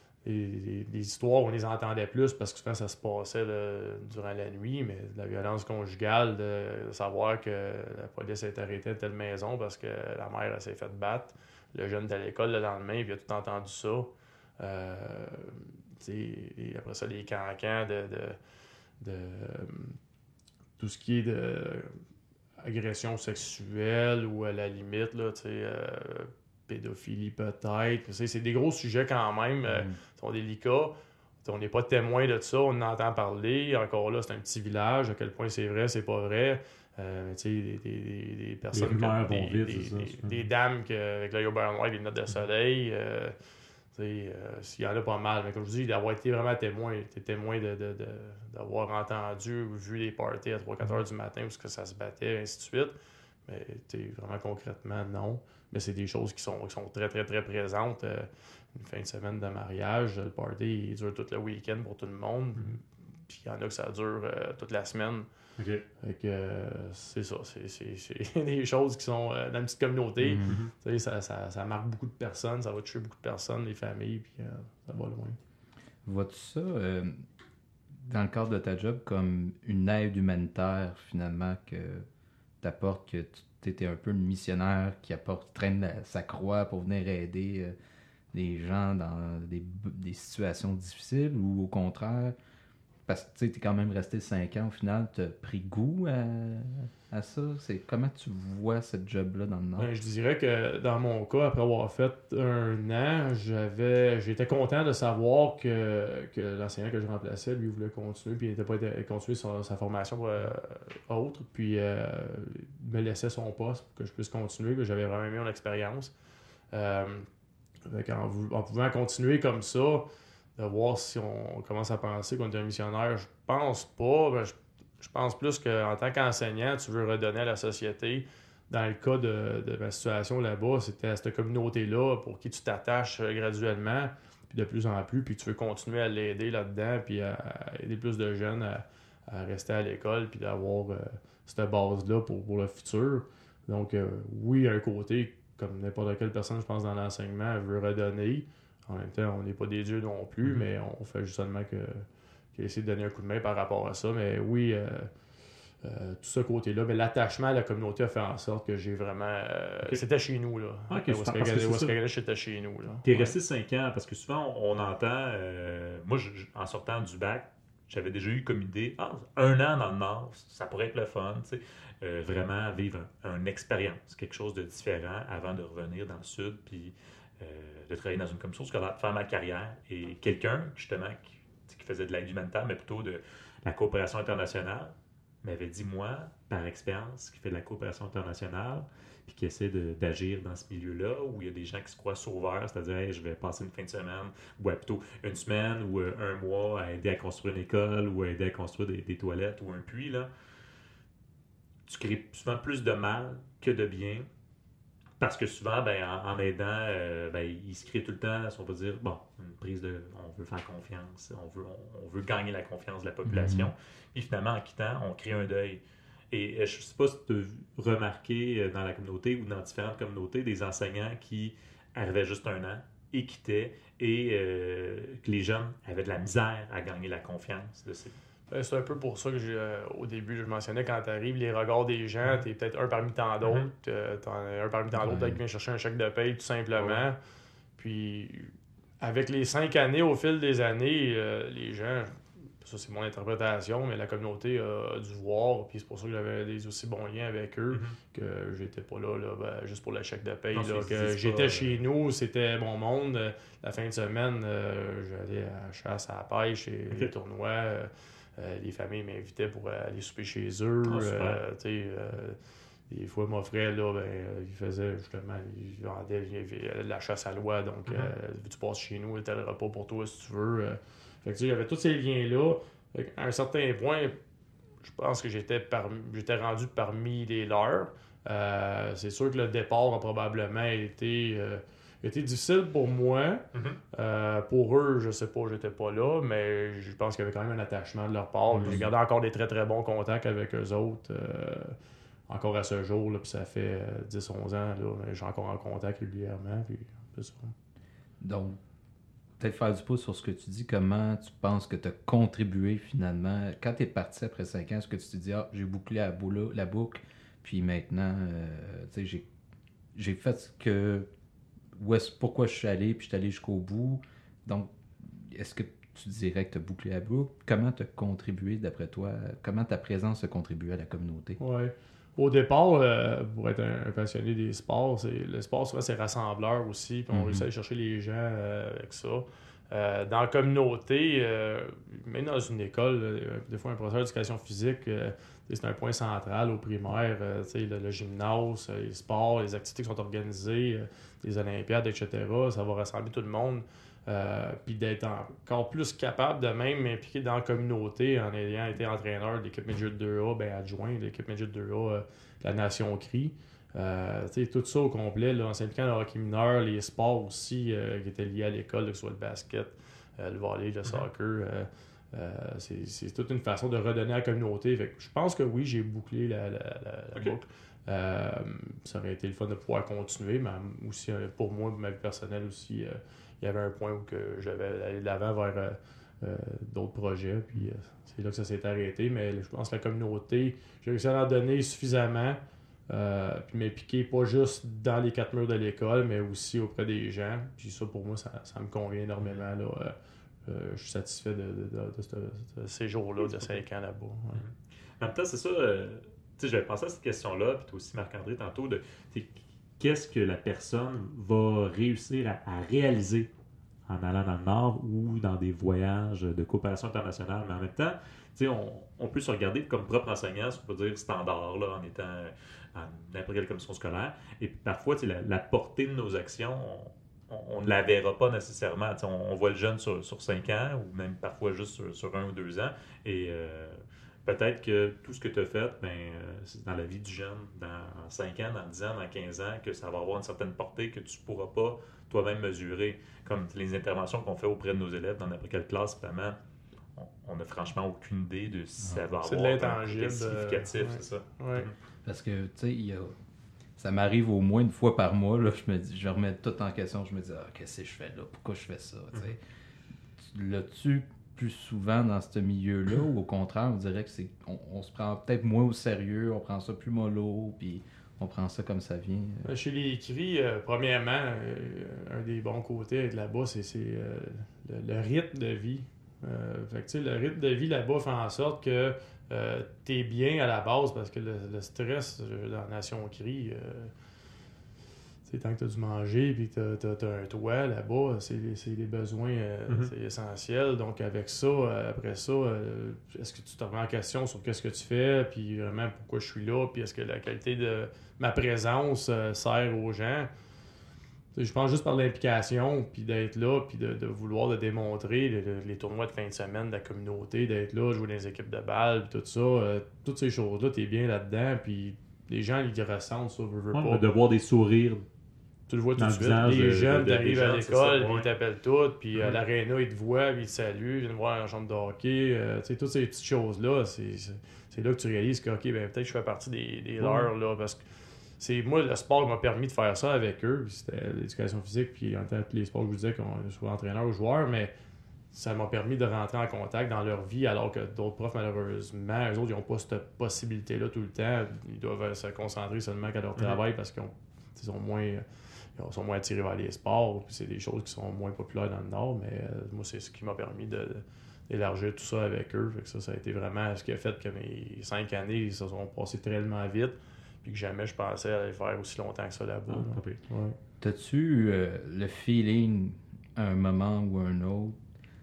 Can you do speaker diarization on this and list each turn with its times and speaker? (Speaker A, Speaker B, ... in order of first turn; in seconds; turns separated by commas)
Speaker A: 0.2-18.4, Speaker A: 19.0-20.0, Speaker A: 20.8-21.9, Speaker A: 22.6-43.4, Speaker B: 29.7-30.0, Speaker C: 38.7-40.4, Speaker A: 43.9-53.0, Speaker A: 53.5-65.3, Speaker C: 65.6-65.8, Speaker A: 66.0-75.4, Speaker B: 70.2-70.6, Speaker C: 70.4-70.7, Speaker B: 76.1-77.2, Speaker B: 78.0-82.0, Speaker B: 82.6-87.8, Speaker B: 88.3-92.3, Speaker B: 93.1-99.9, Speaker A: 99.8-116.1, Speaker A: 116.7-117.3, Speaker A: 117.9-155.1, Speaker A: 155.8-163.4, Speaker C: 160.9-161.9, Speaker C: 163.0-200.3, Speaker C: 201.9-204.3, Speaker C: 205.2-228.1, Speaker B: 213.3-213.7, Speaker A: 228.5-237.2, Speaker C: 233.4-233.7, Speaker B: 235.1-235.4, Speaker C: 236.8-237.0, Speaker A: 237.8-262.4, Speaker C: 247.7-248.0, Speaker C: 250.5-251.8, Speaker C: 260.9-261.4, Speaker A: 262.9-274.2, Speaker C: 267.9-268.1, Speaker A: 274.8-291.8, Speaker C: 283.5-283.8, Speaker C: 288.5-288.9, Speaker A: 292.3-297.5, Speaker B: 298.2-298.6, Speaker B: 299.4-309.3, Speaker B: 309.9-311.1, Speaker B: 311.7-321.4, Speaker A: 321.4-389.9, Speaker B: 327.1-327.5, Speaker A: 390.5-394.4, Speaker C: 393.2-393.6, Speaker C: 394.4-403.3, Speaker C: 403.9-436.4, Speaker C: 436.9-441.7, Speaker A: 439.2-441.7, Speaker B: 442.1-443.1, Speaker B: 443.8-449.4, Speaker B: 450.2-459.5, Speaker A: 459.4-473.9, Speaker A: 475.3-490.3, Speaker A: 491.4-504.0, Speaker C: 503.7-505.1, Speaker A: 505.7-517.8, Speaker C: 506.0-508.3, Speaker C: 517.0-517.3, Speaker A: 518.4-524.7, Speaker A: 525.3-535.2, Speaker A: 535.8-550.6, Speaker C: 549.7-550.2, Speaker B: 550.8-554.8